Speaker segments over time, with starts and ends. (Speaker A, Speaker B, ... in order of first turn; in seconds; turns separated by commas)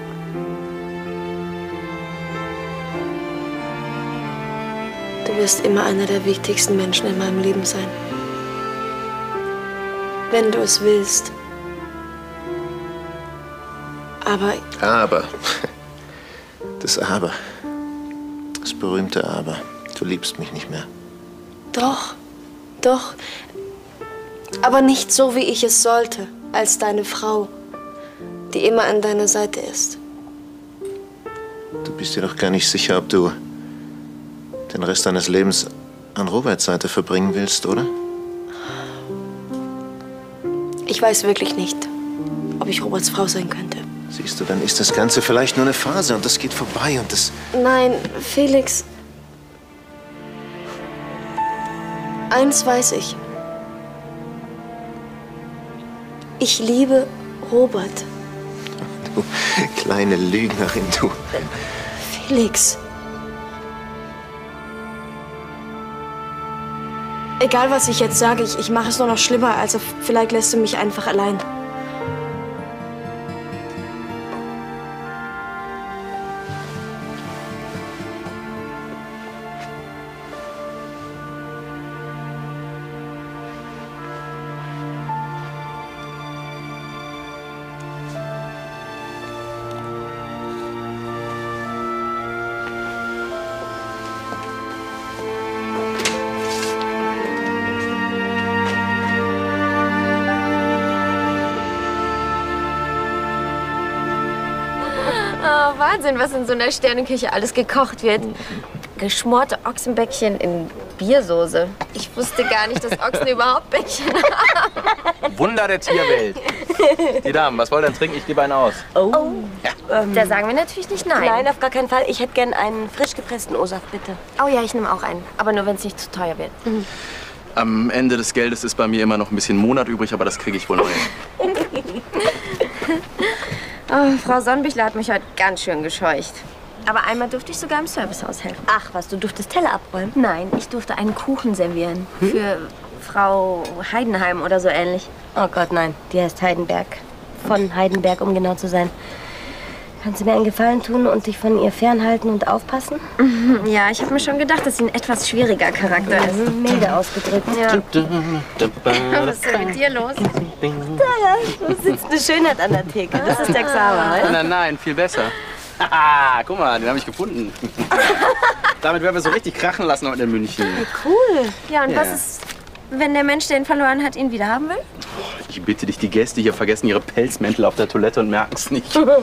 Speaker A: 5.2-7.9, Speaker A: 10.3-11.3, Speaker A: 14.2-14.6, Speaker B: 14.8-15.7, Speaker B: 16.8-17.6, Speaker B: 18.6-20.9, Speaker A: 21.7-22.2, Speaker A: 22.8-23.2, Speaker A: 24.6-27.5, Speaker A: 28.5-30.0, Speaker B: 31.8-33.4, Speaker B: 34.7-37.9, Speaker A: 40.9-41.9, Speaker A: 42.6-43.8, Speaker B: 44.1-47.3, Speaker A: 47.5-48.8, Speaker A: 52.3-53.2, Speaker A: 56.4-58.1, Speaker B: 59.0-61.6, Speaker A: 62.0-62.8, Speaker A: 67.4-71.5, Speaker C: 104.9-108.3, Speaker C: 109.0-114.8, Speaker D: 115.2-116.6, Speaker D: 117.2-118.9, Speaker E: 118.9-120.4, Speaker C: 119.1-119.5, Speaker C: 120.1-121.4, Speaker E: 121.1-124.2, Speaker C: 124.4-126.6, Speaker D: 127.5-131.1, Speaker C: 133.2-145.2, Speaker E: 139.5-140.1, Speaker E: 145.3-148.9, Speaker E: 150.0-153.0, Speaker C: 153.2-156.6, Speaker E: 156.1-157.7, Speaker C: 157.5-157.8, Speaker D: 158.0-159.3, Speaker C: 158.9-160.3, Speaker E: 160.9-164.3, Speaker C: 163.2-164.3, Speaker D: 164.0-167.7, Speaker D: 168.7-170.9, Speaker C: 171.4-174.8, Speaker D: 171.9-172.2, Speaker D: 175.2-179.1